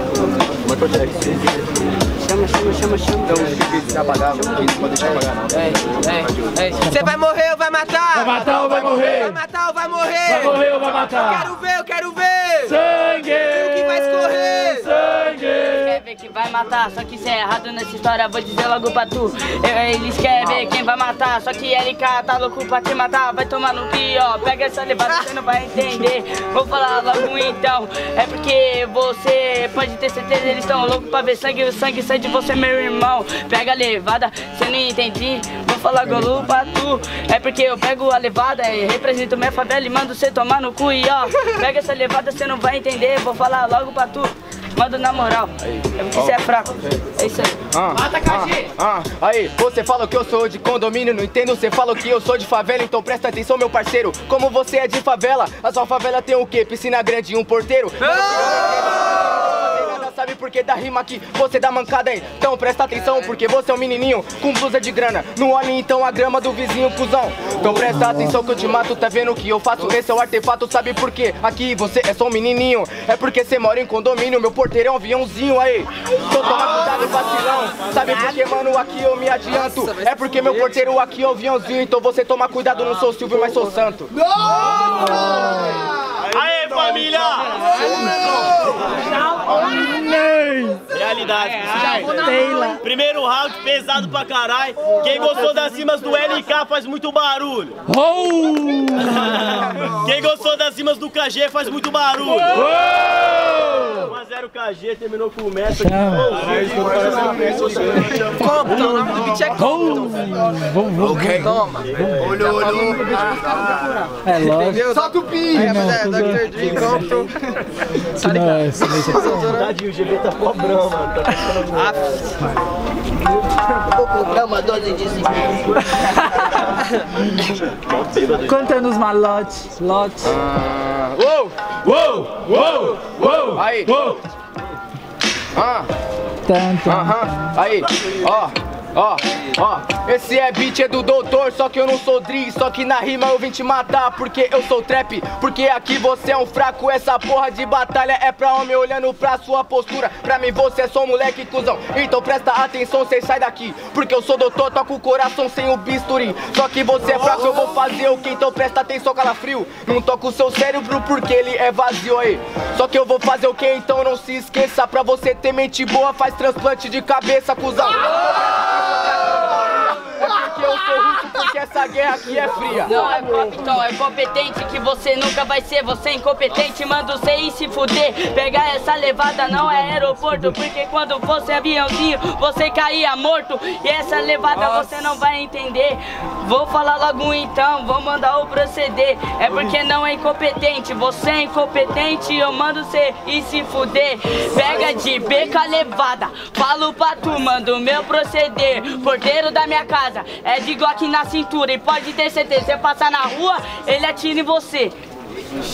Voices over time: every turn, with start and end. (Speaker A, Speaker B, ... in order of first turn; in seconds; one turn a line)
Speaker A: 0.7-1.4
Speaker B: 2.2-3.6
Speaker C: 3.3-6.8
Speaker B: 4.3-4.8
Speaker B: 5.7-6.2
Speaker D: 6.8-15.1
Speaker E: 8.3-9.1
Speaker E: 10.5-11.0
Speaker E: 15.1-15.4
Speaker B: 15.5-47.6
Speaker C: 46.1-47.0
Speaker C: 47.7-84.1
Speaker D: 79.5-80.7
Speaker D: 84.7-85.5
Speaker E: 85.1-85.8
Speaker A: 86.2-87.9
Speaker D: 87.9-88.5
Speaker E: 89.8-90.8
Speaker A: 90.9-97.8
Speaker D: 91.9-92.8
Speaker E: 97.9-99.1
Speaker A: 99.0-103.4
Speaker A: 103.9-108.8
Speaker E: 105.8-106.3
Speaker D: 108.0-110.2
Speaker E: 109.7-111.5
Speaker C: 111.0-111.5
Speaker D: 111.3-111.9
Speaker A: 111.9-112.5
Speaker C: 112.4-112.7
Speaker D: 112.5-113.2
Speaker E: 114.2-114.9
Speaker D: 114.3-117.3
Speaker E: 115.6-117.0
Speaker D: 118.2-119.7
Speaker E: 118.2-119.4
Speaker A: 119.5-121.9
Speaker D: 121.7-122.3
Speaker A: 127.9-128.7
Speaker E: 128.5-130.3
Speaker C: 130.2-134.2
Speaker C: 135.6-135.9
Speaker E: 136.5-137.3
Speaker C: 136.8-173.0
Speaker B: 172.8-204.9